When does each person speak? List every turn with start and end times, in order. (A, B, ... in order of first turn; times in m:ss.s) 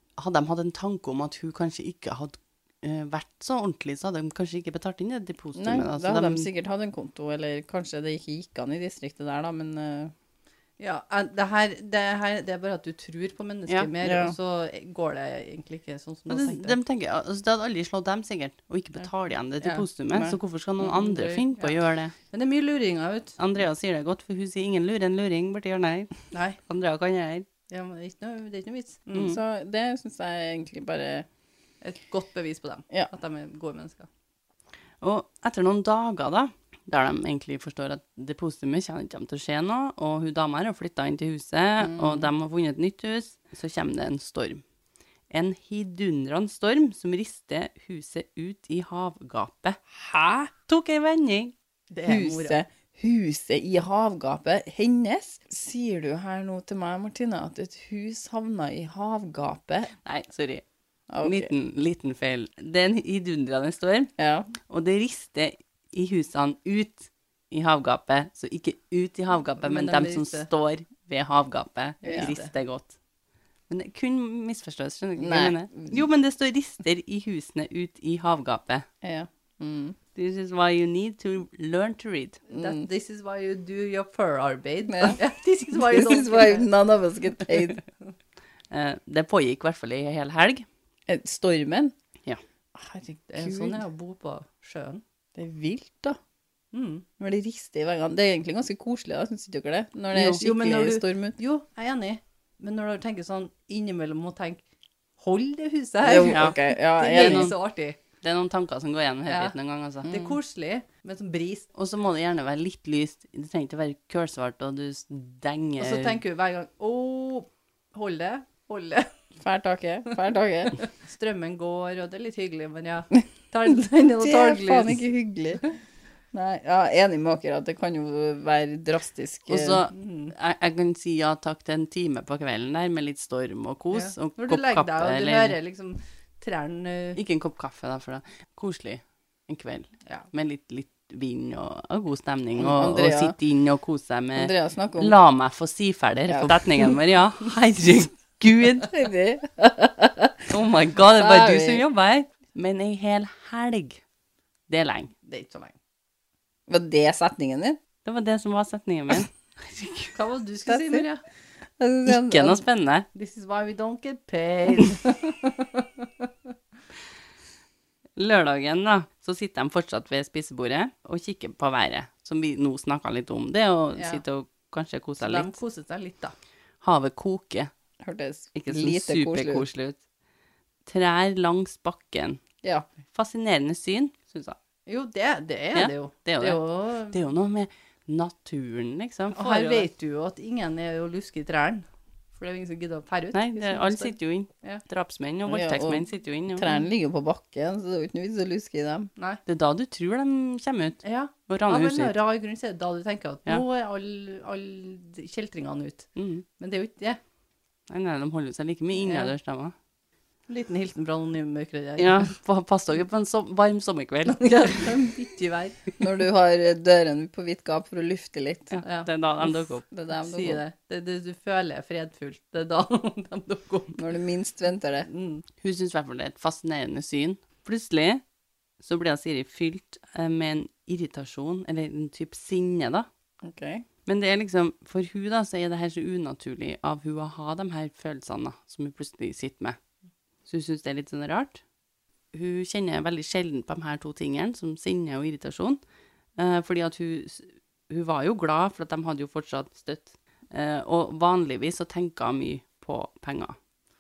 0:00.2-0:06.5 A
0:05.6-0:10.1 B
0:10.8-0:16.8 C
0:14.0-0:14.3 B
0:16.3-0:22.2 A
0:19.6-0:20.4 B
0:20.8-0:21.8 C
0:22.3-0:23.4 C
0:23.4-0:27.5 A
0:26.3-0:26.6 C
0:27.7-0:29.4 C
0:29.2-0:31.3 B
0:31.8-0:34.1 C
0:35.0-0:44.6 A
0:41.8-0:42.3 B
0:45.3-0:49.8 A
0:49.9-0:50.5 B
0:50.7-0:51.5 A
0:51.9-0:52.6 C
0:52.1-0:59.9 B
1:00.0-1:00.6 A
1:01.1-1:01.5 B
1:01.2-1:04.1 A
1:04.2-1:04.5 B
1:04.7-1:13.0 A
1:09.6-1:10.5 C
1:12.0-1:12.5 C
1:12.1-1:12.3 B
1:13.7-1:18.9 A
1:15.2-1:16.0 B
1:19.0-1:20.0 B
1:20.2-1:22.4 A
1:22.5-1:26.7 C
1:22.5-1:22.9 B
1:24.9-1:25.2 B
1:25.8-1:27.8 B
1:28.7-1:30.7 A
1:31.1-1:31.9 B
1:32.8-1:33.8 B
1:33.3-1:35.0 C
1:35.4-1:36.2 B
1:36.7-1:37.0 C
1:37.2-1:41.4 B
1:40.1-1:40.4 A
1:40.4-1:44.6 C
1:45.2-1:48.0 C
1:46.0-1:47.5 B
1:46.2-1:46.6 A
1:47.1-1:47.6 A
1:48.2-1:50.1 A
1:49.3-1:51.7 C
1:50.0-1:50.4 B
1:51.7-1:56.2 A
1:55.8-1:59.1 C
1:59.4-2:00.8 B
2:00.8-2:05.0 C
2:04.2-2:05.6 B
2:06.3-2:09.8 B
2:09.5-2:15.6 A
2:09.9-2:10.3 C
2:13.9-2:17.2 C
2:17.2-2:28.9 A
2:22.6-2:23.4 B
2:24.4-2:25.2 B
2:26.3-2:27.0 B
2:28.8-2:30.3 B
2:30.5-2:34.0 A
2:31.1-2:31.8 B
2:34.7-2:35.1 A
2:35.3-2:35.8 C
2:36.7-2:37.8 B
2:38.0-2:40.2 A
2:40.2-2:41.2 C
2:40.7-2:41.0 B
2:41.8-2:42.6 B
2:42.1-2:43.1 A
2:43.1-2:46.3 C
2:48.2-2:55.6 A
2:54.0-2:54.2 C
2:55.2-2:56.3 C
2:56.8-2:57.7 A
2:58.0-2:59.6 B
2:58.6-3:00.0 A
3:00.9-3:02.4 A
3:03.1-3:04.6 A
3:04.9-3:07.2 C
3:05.7-3:09.9 A
3:09.3-3:11.8 C
3:12.4-3:14.8 C
3:13.3-3:16.8 A
3:15.5-3:19.1 B
3:19.2-3:19.4 C
3:19.5-3:22.1 A
3:21.0-3:26.1 C
3:26.2-3:26.4 A
3:26.6-3:27.2 C
3:27.9-3:29.8 A
3:29.0-3:29.3 C
3:30.5-3:32.3 C
3:32.0-3:34.8 A
3:34.3-3:36.0 C
3:36.0-3:38.8 B
3:38.7-3:39.9 A
3:38.8-3:39.1 C
3:39.5-3:40.6 B
3:40.1-3:44.0 C
3:44.0-3:45.1 B
3:45.1-3:45.4 C
3:45.6-3:48.2 A
3:48.8-3:53.1 A
3:53.4-3:53.8 B
3:54.1-3:59.8 A
4:00.5-4:01.6 A
4:02.3-4:05.8 A
4:06.4-4:13.6 A